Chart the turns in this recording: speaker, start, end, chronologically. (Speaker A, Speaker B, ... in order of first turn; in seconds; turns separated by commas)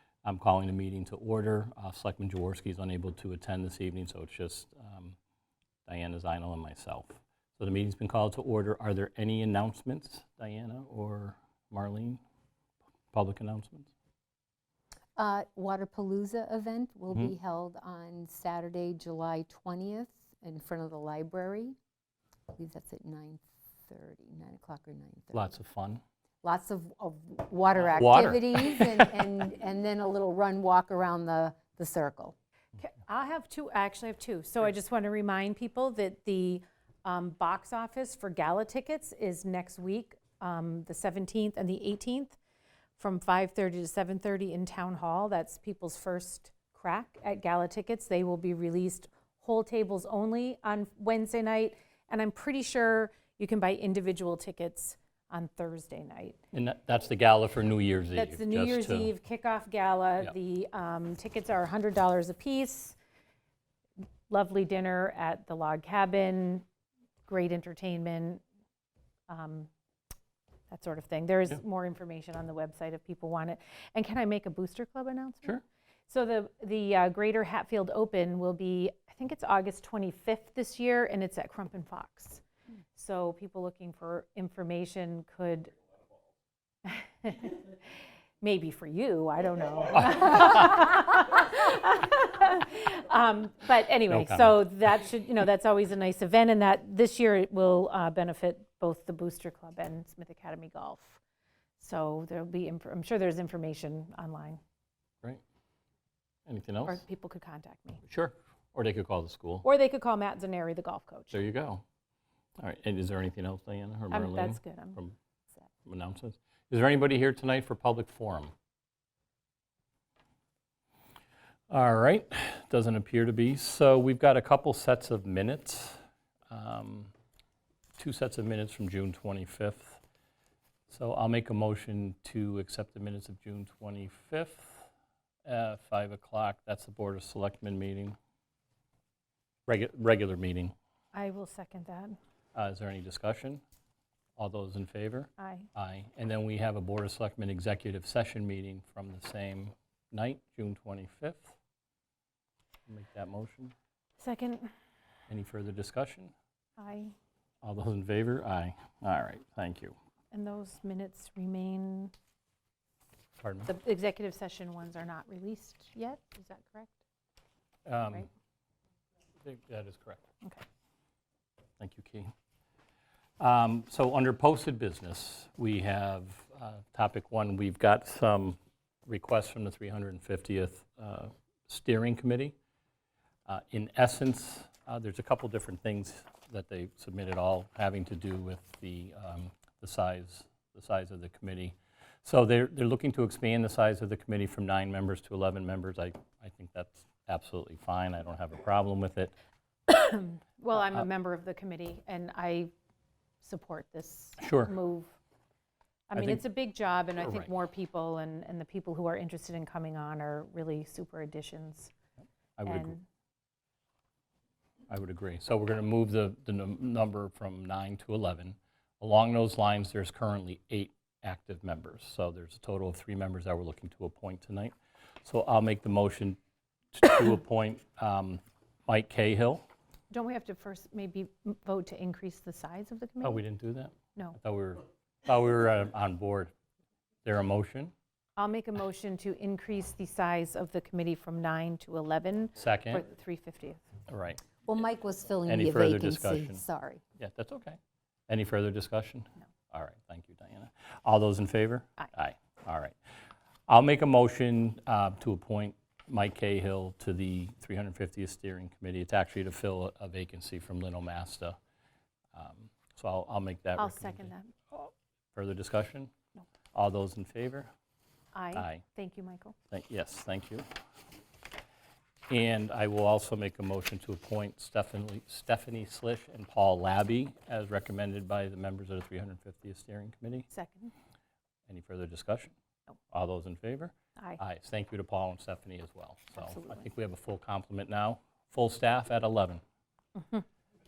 Speaker A: 0.2-5.2, Speaker A: 5.9-12.2, Speaker A: 13.1-13.9, Speaker B: 15.2-21.8, Speaker B: 22.5-25.5, Speaker A: 25.3-26.0, Speaker B: 26.4-32.3, Speaker A: 27.7-29.1, Speaker C: 32.8-42.4, Speaker C: 43.0-56.4, Speaker A: 56.5-59.1, Speaker C: 58.1-63.0, Speaker C: 64.3-66.6, Speaker C: 67.3-68.4, Speaker C: 69.3-69.7, Speaker C: 70.7-75.6, Speaker C: 76.1-82.4, Speaker C: 82.9-85.7, Speaker C: 86.8-87.7, Speaker C: 88.4-101.2, Speaker A: 94.1-94.7, Speaker C: 101.8-104.6, Speaker A: 106.5-107.0, Speaker C: 106.8-108.0, Speaker A: 108.0-109.7, Speaker C: 109.6-111.4, Speaker A: 111.3-111.8, Speaker A: 112.6-115.1, Speaker C: 114.1-115.0, Speaker A: 115.8-118.5, Speaker A: 121.7-127.1, Speaker A: 128.0-130.0, Speaker A: 130.9-134.9, Speaker A: 135.4-138.2, Speaker A: 139.7-140.7, Speaker C: 141.1-142.2, Speaker A: 142.5-143.6, Speaker A: 144.4-151.5, Speaker C: 145.4-145.7, Speaker A: 152.9-153.7, Speaker C: 154.2-154.7, Speaker A: 155.3-156.3, Speaker C: 156.8-157.1, Speaker A: 157.6-160.0, Speaker C: 160.3-162.1, Speaker A: 163.4-163.7, Speaker C: 163.7-167.0, Speaker A: 167.8-168.3, Speaker A: 169.4-170.2, Speaker A: 171.8-172.3, Speaker A: 173.4-182.5, Speaker A: 183.5-199.3, Speaker C: 199.9-202.7, Speaker A: 200.8-201.0, Speaker C: 203.4-205.1, Speaker A: 204.4-204.7, Speaker C: 206.1-211.9, Speaker A: 206.2-206.4, Speaker A: 207.2-207.5, Speaker A: 212.6-212.9, Speaker C: 212.7-213.0, Speaker A: 214.9-226.4, Speaker A: 226.9-229.6, Speaker C: 230.1-233.4, Speaker A: 233.2-236.5, Speaker A: 237.2-237.9, Speaker C: 238.4-243.9, Speaker A: 242.6-243.0, Speaker A: 244.1-244.4, Speaker B: 244.6-247.0, Speaker A: 245.5-246.6, Speaker A: 247.2-253.0, Speaker A: 253.7-261.6, Speaker A: 262.3-266.1, Speaker C: 263.8-264.5, Speaker A: 266.7-267.7, Speaker C: 268.3-269.6, Speaker A: 268.5-268.8, Speaker A: 269.7-270.7, Speaker A: 272.3-280.5, Speaker C: 280.5-280.9, Speaker A: 281.7-282.5, Speaker A: 283.1-289.6, Speaker C: 286.4-286.9, Speaker C: 290.2-290.4